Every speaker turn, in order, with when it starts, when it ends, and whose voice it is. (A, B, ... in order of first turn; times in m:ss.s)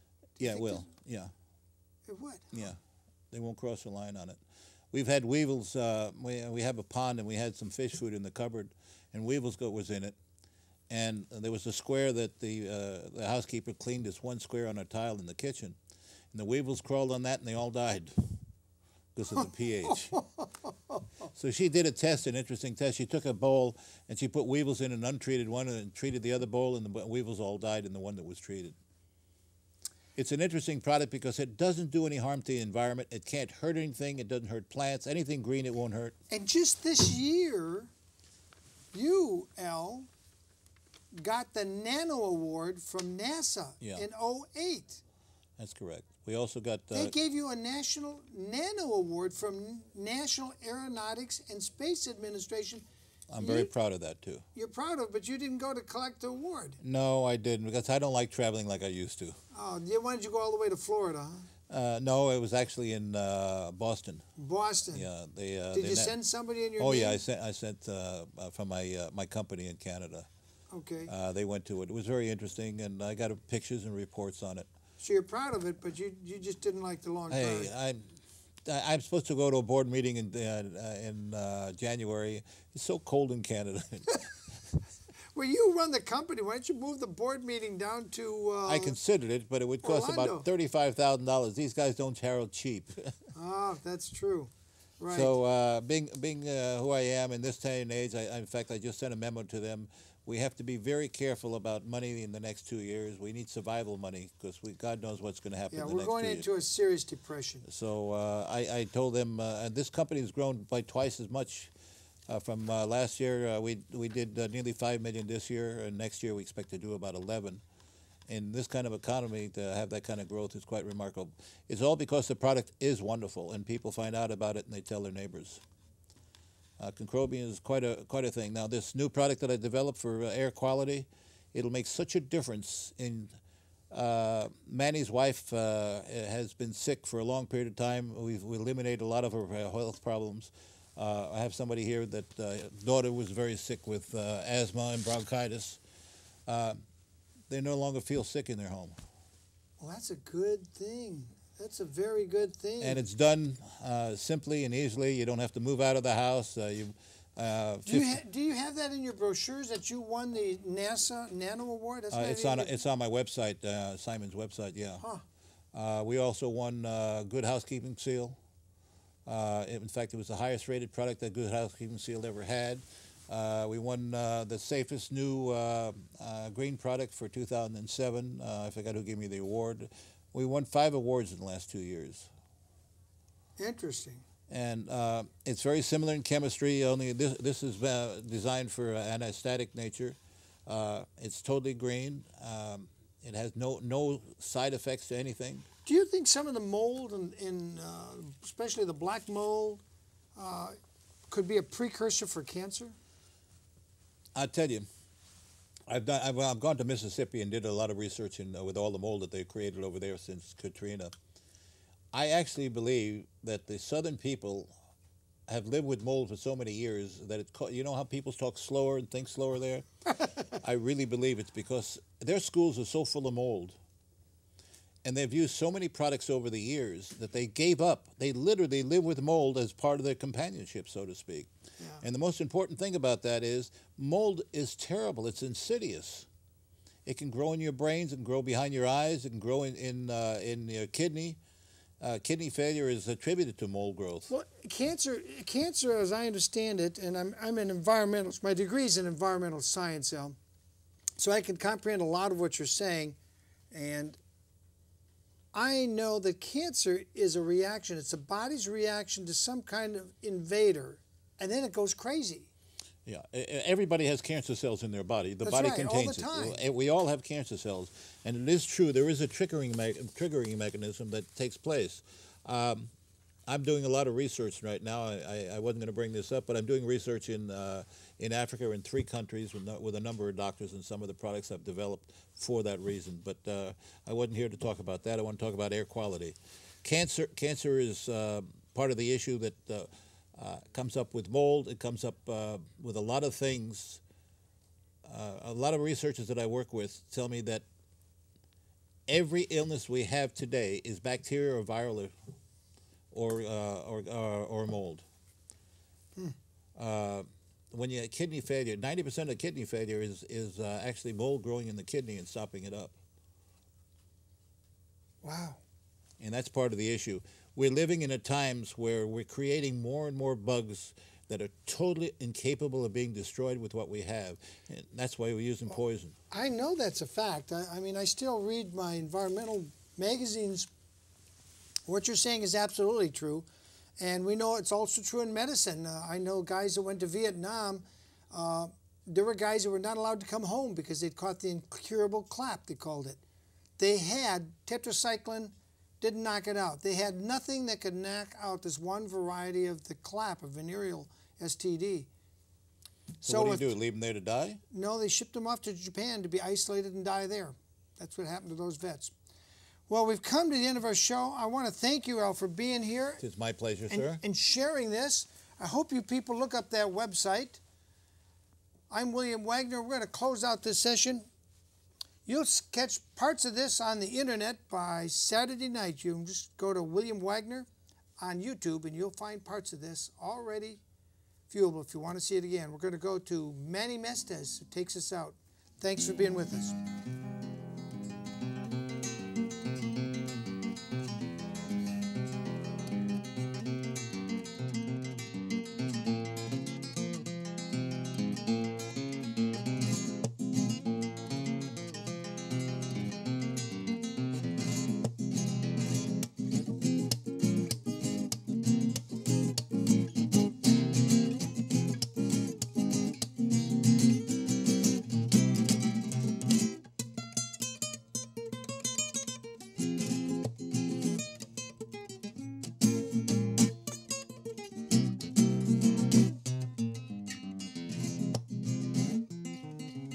0:00.4-0:00.9 A
0:00.4-0:01.3 B
0:02.1-0:02.6 A
0:02.5-0:02.8 B
0:03.3-0:04.4 B
0:04.9-0:10.2 B
0:10.9-0:15.8 B
0:16.3-0:18.4 B
0:19.1-0:20.2 B
0:19.9-0:21.0 A
0:21.3-0:28.8 B
0:30.2-0:36.1 B
0:36.3-0:37.9 A
0:38.9-0:40.1 A
0:41.1-0:45.0 A
0:45.6-0:47.1 B
0:46.9-0:52.8 A
0:53.3-0:54.4 B
0:53.4-0:53.7 A
0:54.5-0:56.8 A
0:56.8-0:59.4 B
0:59.5-1:01.5 A
1:01.7-1:04.2 B
1:04.4-1:05.1 A
1:04.9-1:06.2 B
1:05.7-1:07.2 A
1:06.8-1:10.3 B
1:10.7-1:11.1 A
1:11.1-1:14.7 B
1:15.0-1:17.7 A
1:17.3-1:18.1 B
1:18.6-1:24.4 B
1:25.3-1:29.0 A
1:28.6-1:33.1 B
1:29.8-1:30.5 A
1:33.3-1:35.4 A
1:35.1-1:46.5 B
1:45.7-1:47.6 A
1:47.6-1:51.7 B
1:52.3-1:57.6 B
1:58.3-2:05.6 B
2:06.8-2:13.3 B
2:13.9-2:25.8 B
2:26.5-2:26.8 B
2:27.5-2:29.0 B
2:29.8-2:33.0 A
2:32.8-2:38.2 B
2:37.8-2:42.7 A
2:42.1-2:45.0 B
2:45.7-2:48.4 B
2:49.2-3:02.3 B
3:03.6-3:04.2 A
3:04.5-3:15.6 B
3:15.8-3:19.8 A
3:20.4-3:20.8 A
3:21.3-3:23.0 A
3:24.3-3:24.9 B
3:25.9-3:31.1 B
3:32.1-3:34.7 B
3:35.5-3:39.8 B
3:40.5-3:43.8 B
3:45.0-3:51.5 B
3:52.0-3:56.3 B
3:57.0-4:01.4 B
4:02.0-4:04.3 B
4:04.3-4:10.4 A
4:11.2-4:13.2 A
4:13.7-4:14.2 A
4:15.5-4:22.5 A
4:23.0-4:32.9 B
4:25.4-4:26.6 A
4:33.5-4:54.0 B
4:55.0-4:57.6 B
4:59.1-5:02.1 B
5:03.1-5:05.0 B
5:06.8-5:12.9 B
5:15.2-5:15.6 A
5:16.2-5:26.1 B
5:26.3-5:30.7 A
5:31.9-5:33.5 A
5:34.0-5:43.2 A
5:43.8-5:52.1 A
5:53.2-5:53.7 A
5:53.2-5:54.6 B
5:54.7-5:59.1 A
5:59.9-6:03.2 A
6:03.2-6:04.2 B
6:03.9-6:07.6 A
6:08.9-6:11.2 A
6:12.2-6:17.7 A
6:18.2-6:20.8 A
6:21.5-6:26.8 A